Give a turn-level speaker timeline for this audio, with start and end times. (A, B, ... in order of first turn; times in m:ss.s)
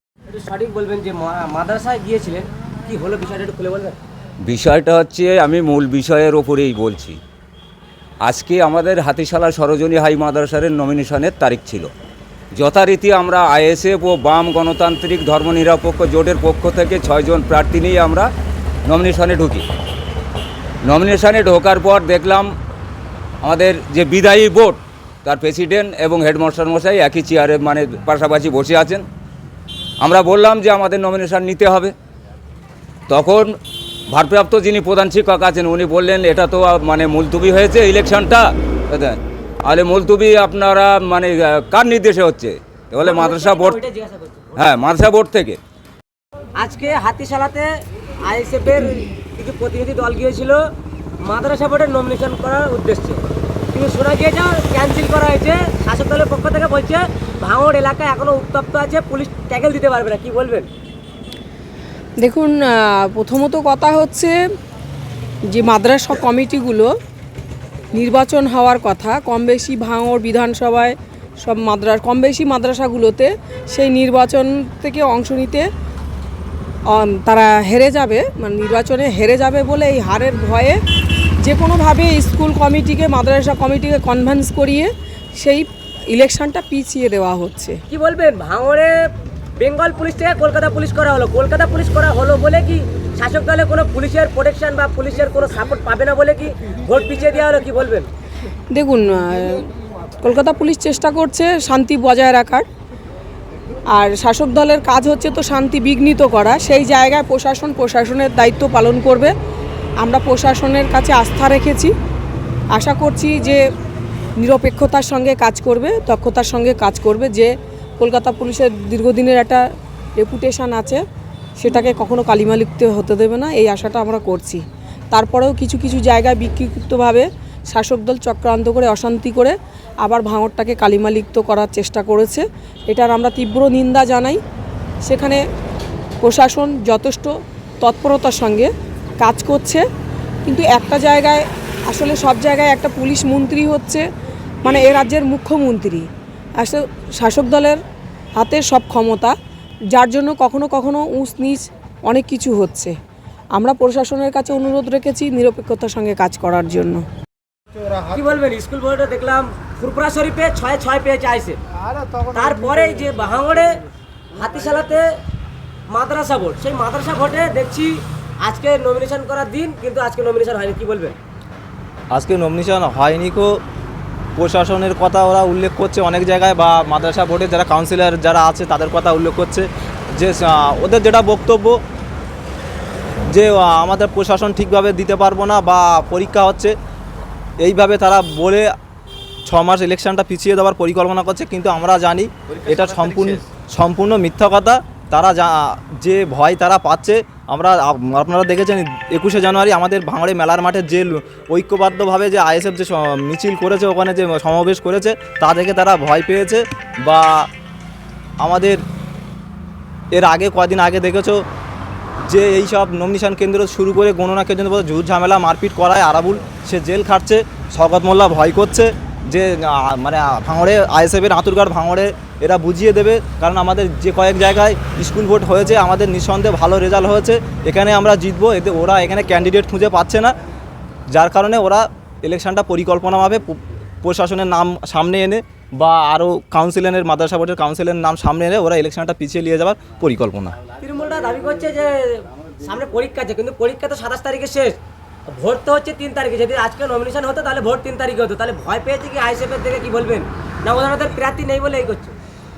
0:00.3-0:04.0 A
0:04.4-0:07.2 B
0:08.2-0:11.9 B
0:12.5-0:18.3 B
0:18.9-0:19.6 B
0:20.8-0:22.5 B
0:23.4-0:29.0 B
0:30.0-0:31.9 B
0:33.1-0:33.6 B
0:34.1-0:43.8 B
0:43.0-0:44.5 A
0:44.6-0:45.6 B
0:46.6-0:47.7 A
0:48.2-0:50.6 A
0:51.2-1:00.7 A
1:02.2-1:04.4 C
1:05.4-1:06.9 C
1:07.9-1:15.7 C
1:16.9-1:20.8 C
1:21.4-1:27.8 C
1:27.9-1:29.0 A
1:29.6-1:38.1 A
1:38.7-1:39.7 C
1:40.2-1:42.6 C
1:43.9-1:49.3 C
1:50.0-1:51.9 C
1:52.7-1:53.6 C
1:54.4-1:59.6 C
2:00.2-2:01.0 C
2:01.6-2:14.4 C
2:15.0-2:15.4 C
2:16.2-2:19.8 C
2:20.4-2:24.0 C
2:24.6-2:27.8 C
2:28.4-2:29.3 C
2:29.9-2:33.0 C
2:33.5-2:37.0 C
2:38.0-2:41.6 A
2:42.2-2:45.0 A
2:45.9-2:51.2 A
2:52.1-2:53.6 D
2:54.4-3:01.8 D
3:03.3-3:06.7 D
3:07.6-3:08.7 D
3:09.4-3:27.5 D
3:28.4-3:28.8 D
3:30.1-3:31.4 D
3:32.2-3:50.4 D
3:51.1-4:00.6 D
4:00.8-4:04.8 A
4:05.3-4:12.1 A